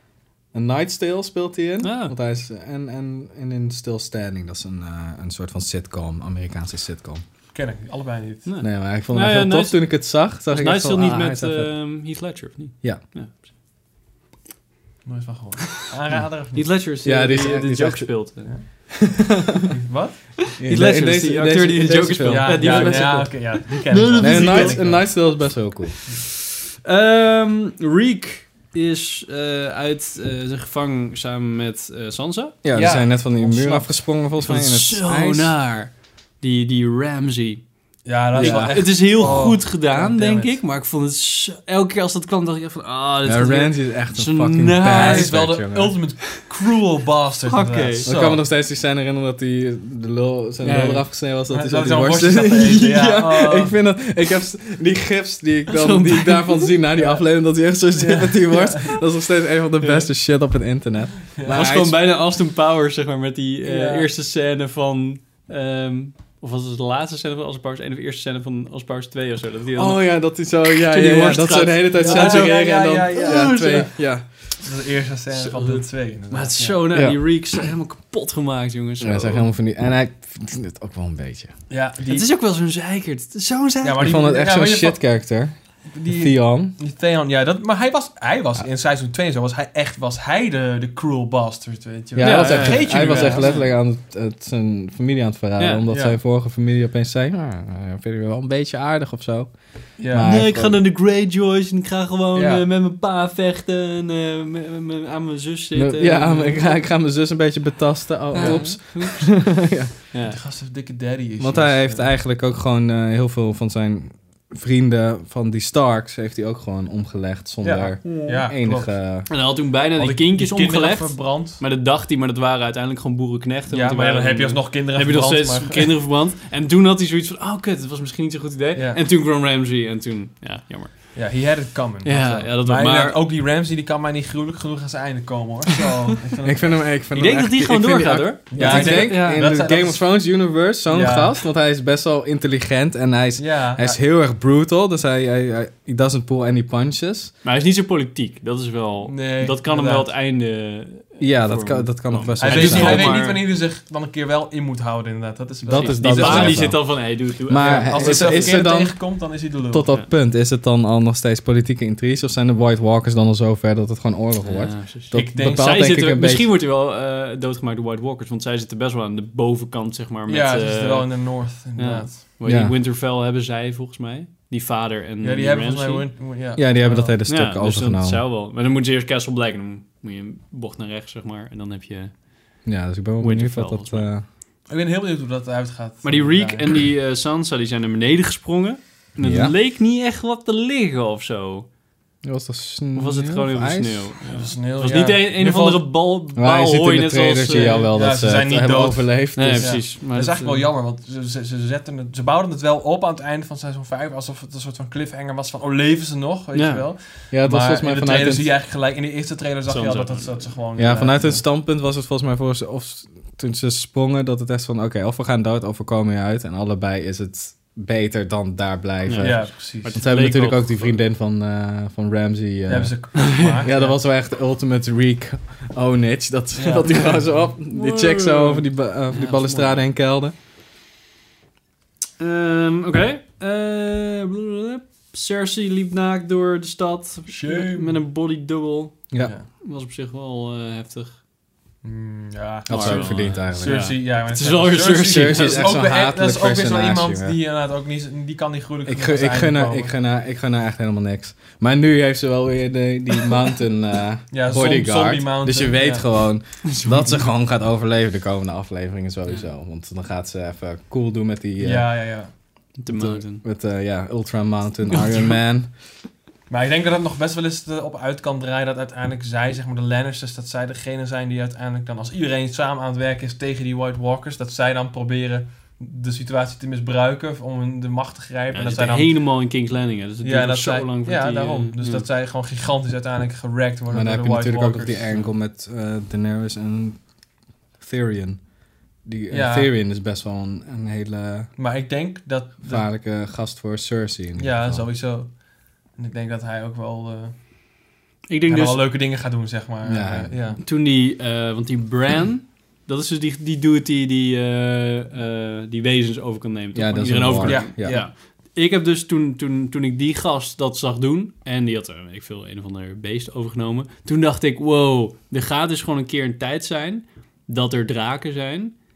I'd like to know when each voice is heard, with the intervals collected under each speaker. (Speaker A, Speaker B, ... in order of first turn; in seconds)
Speaker A: 0.5-7.2, 8.6-11.8, 17.0-18.2, 19.0-19.6, 20.6-23.2, 24.2-26.0, 32.6-35.5, 38.4-39.5, 43.2-46.0, 48.1-62.0, 69.8-74.3, 76.9-77.7, 79.0-81.5, 84.0-86.8, 92.2-100.8, 105.7-110.0, 111.4-119.3, 136.4-147.3, 151.2-153.2, 155.7-166.5, 172.4-172.8, 176.6-178.2, 182.7-184.2, 189.2-189.6, 192.2-194.1, 196.3-199.8, 207.3-208.5, 210.8-230.3, 242.7-243.9, 245.1-247.4, 248.9-261.9, 262.9-265.7, 283.9-287.0, 287.8-288.4, 289.0-291.5, 292.6-294.9, 299.8-300.4, 306.8-308.0
Speaker B: 1.8-2.1, 8.5-9.9, 10.5-13.4, 16.5-18.5, 20.6-24.8, 26.8-32.6, 33.4-37.6, 38.3-45.4, 47.5-48.1, 50.6-51.0, 55.7-56.7, 61.5-70.2, 70.7-73.9, 75.3-79.5, 82.1-84.2, 92.2-93.7, 95.6-95.8, 100.2-106.8, 108.3-109.6, 110.1-110.4, 118.0-118.5, 119.3-131.2, 132.1-133.2, 137.1-139.4, 147.4-153.5, 155.7-158.6, 164.4-176.1, 177.3-182.2, 183.2-184.1, 186.0-191.7, 192.9-197.9, 199.4-200.6, 206.5-206.9, 209.7-210.5, 219.1-221.0, 223.2-223.6, 227.7-229.8, 232.2-241.2, 242.7-245.6, 256.6-257.2, 262.8-263.4, 264.9-265.4, 278.5-282.1, 298.3-298.9, 300.6-318.8
Speaker C: 7.5-8.5, 15.1-16.8, 18.4-19.1, 19.7-20.4, 22.2-25.2, 32.7-33.3, 38.0-40.6, 44.9-48.4, 51.4-53.8, 57.0-57.2, 57.9-59.0, 61.4-61.6, 63.6-64.1, 72.0-74.0, 74.6-76.9, 81.7-82.3, 83.8-85.0, 85.9-93.5, 95.9-96.2, 100.0-100.3, 102.3-102.7, 108.3-108.7, 110.3-112.1, 117.6-119.4, 120.0-121.6, 123.7-126.0, 128.8-129.0, 131.1-136.9, 138.5-141.3, 143.4-144.0, 149.1-150.1, 152.4-156.9, 157.6-159.9, 165.1-166.0, 170.3-172.2, 175.2-177.2, 184.7-186.8, 194.3-195.9, 197.6-211.4, 219.2-219.9, 222.7-224.0, 226.6-227.3, 237.3-238.0, 239.2-239.5, 241.8-249.9, 254.3-256.1, 261.6-262.3, 266.5-279.3, 280.2-285.3, 289.3-289.7, 291.6-292.9, 294.4-297.9, 298.5-300.6, 307.4-308.1